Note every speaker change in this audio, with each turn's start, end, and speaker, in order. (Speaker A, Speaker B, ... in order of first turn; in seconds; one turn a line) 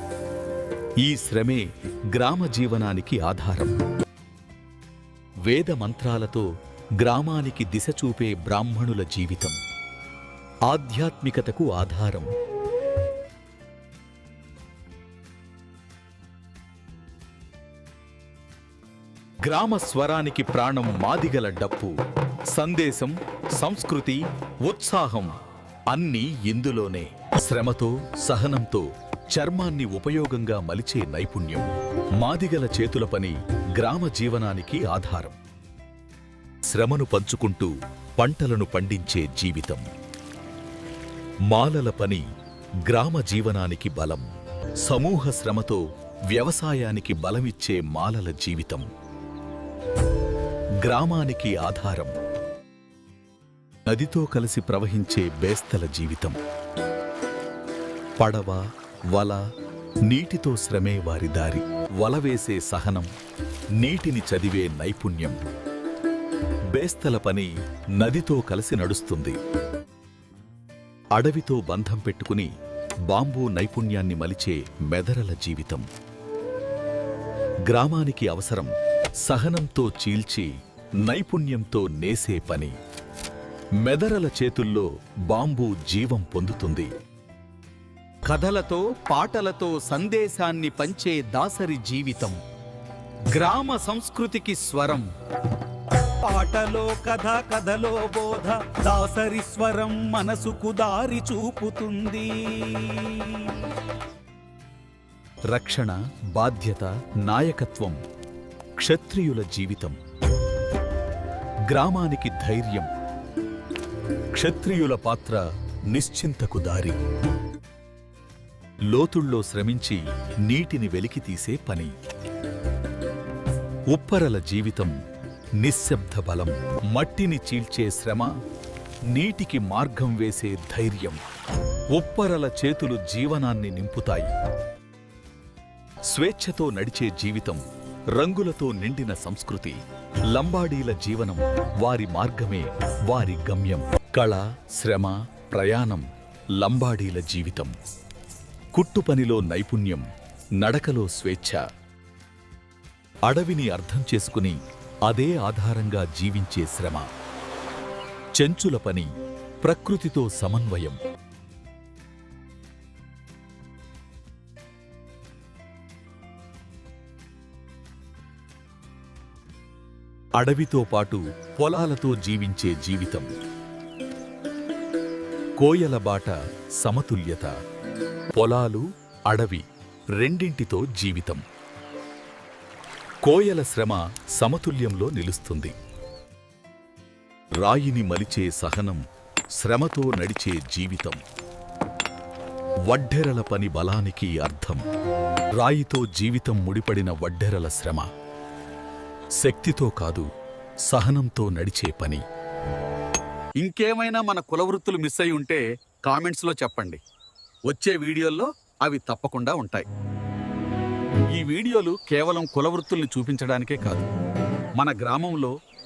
Speaker A: 1.0-3.8
Speaker A: 5.5-6.5
Speaker A: 7.0-9.6
Speaker A: 10.7-12.3
Speaker A: 19.4-21.9
Speaker A: 22.5-25.4
Speaker A: 25.9-35.4
Speaker A: 36.7-39.9
Speaker A: 41.5-42.2
Speaker A: 42.8-44.3
Speaker A: 44.8-48.9
Speaker A: 50.8-52.1
Speaker A: 53.9-56.4
Speaker A: 58.2-59.4
Speaker A: 60.0-63.1
Speaker A: 63.8-65.4
Speaker A: 66.7-69.4
Speaker A: 71.2-72.5
Speaker A: 73.1-75.9
Speaker A: 77.6-80.5
Speaker A: 81.0-82.8
Speaker A: 83.8-86.9
Speaker A: 88.2-92.4
Speaker A: 93.3-95.1
Speaker A: 95.9-103.6
Speaker A: 105.5-108.0
Speaker A: 108.8-110.0
Speaker A: 111.7-112.9
Speaker A: 114.3-117.0
Speaker A: 118.9-121.9
Speaker A: 123.9-125.0
Speaker A: 125.6-128.3
Speaker A: 129.1-131.2
Speaker A: 131.9-134.3
Speaker A: 136.1-139.8
Speaker A: 140.3-147.7
Speaker A: 148.7-150.1
Speaker A: 150.6-151.7
Speaker A: 153.2-157.1
Speaker A: 158.3-159.1
Speaker A: 159.6-161.0
Speaker A: 170.4-173.3
Speaker A: 175.6-177.5
Speaker A: 178.3-181.4
Speaker A: 183.2-185.7
Speaker A: 187.6-189.0
Speaker A: 189.6-191.2
Speaker A: 192.8-194.8
Speaker A: 195.6-198.1
Speaker A: 199.4-200.3
Speaker A: 200.9-202.2
Speaker A: 203.6-207.0
Speaker A: 207.7-209.8
Speaker A: 211.3-214.1
Speaker A: 214.8-215.5